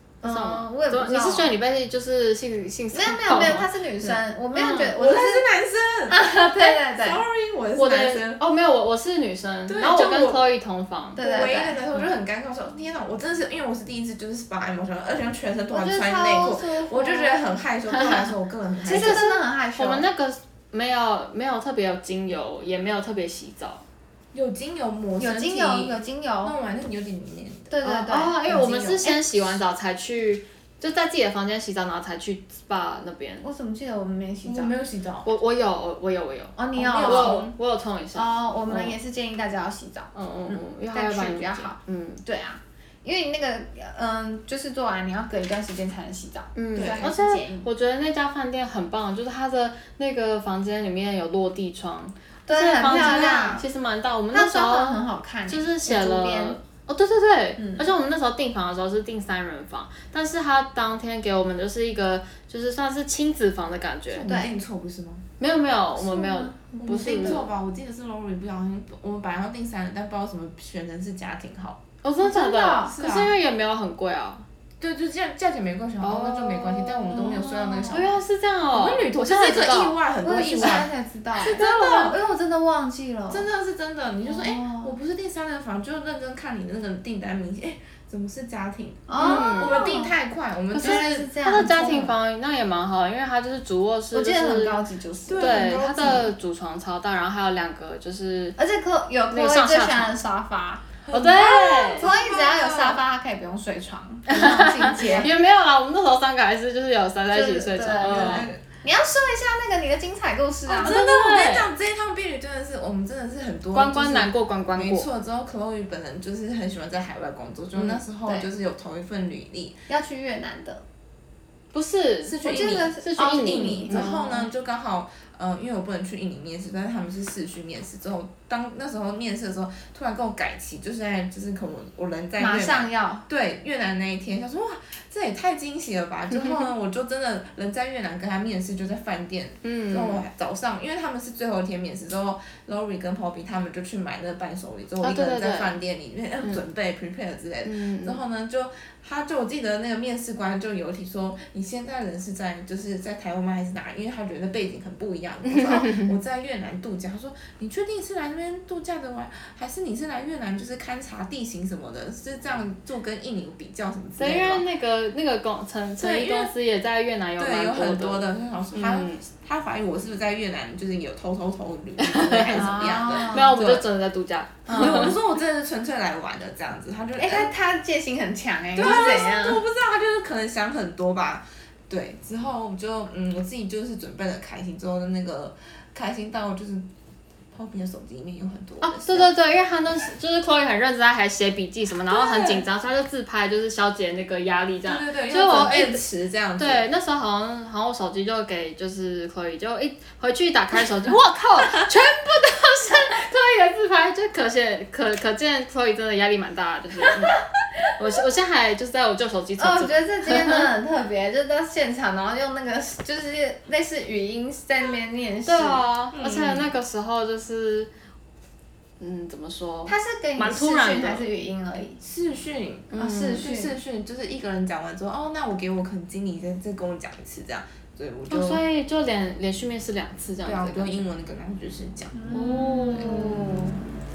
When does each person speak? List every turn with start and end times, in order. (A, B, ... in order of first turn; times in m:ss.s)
0:00.2-0:01.5 A
0:00.2-0:03.7 B
0:02.9-0:05.5 A
0:04.5-0:04.9 B
0:04.9-0:08.4 C
0:06.1-0:07.2 A
0:07.8-0:11.2 B
0:09.7-0:10.5 C
0:11.2-0:11.8 A
0:11.2-0:19.2 C
0:15.7-0:17.5 A
0:18.8-0:20.1 A
0:18.8-0:23.8 B
0:24.3-0:27.7 C
0:25.2-0:26.5 A
0:27.7-0:28.4 A
0:27.8-0:33.4 B
0:28.4-0:29.1 C
0:33.4-0:34.7 A
0:34.4-0:35.3 C
0:35.2-0:39.0 B
0:36.6-0:37.5 A
0:36.8-0:37.5 C
0:38.2-0:47.7 A
0:40.2-0:42.2 B
0:46.5-1:04.3 B
0:46.8-0:47.1 C
0:52.5-0:53.6 A
0:52.9-0:53.6 C
0:54.3-0:56.6 A
0:57.6-0:57.9 A
1:04.1-1:05.2 C
1:04.2-1:04.5 A
1:05.4-1:07.4 B
1:06.0-1:07.5 A
1:06.8-1:11.8 C
1:12.0-1:14.5 B
1:12.2-1:13.0 A
1:12.9-1:13.4 C
1:14.8-1:18.2 C
1:16.0-1:20.0 B
1:17.6-1:18.0 A
1:18.7-1:22.2 C
1:20.2-1:23.5 A
1:21.4-1:22.1 B
1:23.3-1:32.1 C
1:24.2-1:24.9 A
1:29.1-1:30.1 A
1:29.2-1:30.0 B
1:30.7-1:32.1 A
1:30.7-1:34.8 B
1:34.1-1:36.2 A
1:35.3-1:36.3 C
1:35.4-1:38.6 B
1:38.6-1:40.9 A
1:39.3-1:40.2 B
1:41.0-1:43.0 C
1:41.1-1:42.1 B
1:42.0-1:45.3 A
1:44.3-1:48.5 B
1:45.0-1:45.3 C
1:47.3-1:51.0 A
1:48.0-1:48.6 C
1:50.7-1:59.8 C
1:50.7-1:51.7 B
1:53.7-1:55.1 B
1:59.9-2:00.8 A
2:01.7-2:02.4 B
2:02.2-2:44.6 C
2:02.4-2:04.2 A
2:03.0-2:04.4 B
2:12.4-2:13.2 A
2:16.3-2:16.7 B
2:19.6-2:20.2 B
2:25.0-2:25.8 B
2:27.6-2:28.2 B
2:35.4-2:36.2 B
2:44.2-2:49.2 B
2:46.0-2:46.5 C
2:47.4-2:53.8 C
2:52.0-2:55.2 B
2:52.6-2:53.5 A
2:54.7-2:55.1 A
2:54.7-2:57.5 C
2:57.2-2:59.6 A
2:58.8-3:06.9 C
3:07.5-3:09.3 C
3:08.8-3:16.0 B
3:12.1-3:12.6 C
3:14.8-3:16.9 C
3:16.6-3:30.7 B
3:29.6-3:35.8 A
3:35.4-3:37.9 B
3:36.1-3:36.7 C
3:39.0-3:41.3 B
3:39.9-3:42.0 A
3:42.0-3:48.6 C
3:42.9-3:43.5 B
3:43.4-3:43.7 A
3:48.3-3:51.0 B
3:50.4-3:52.1 C
3:52.1-3:53.8 A
3:52.3-3:53.7 B
3:53.0-3:53.4 C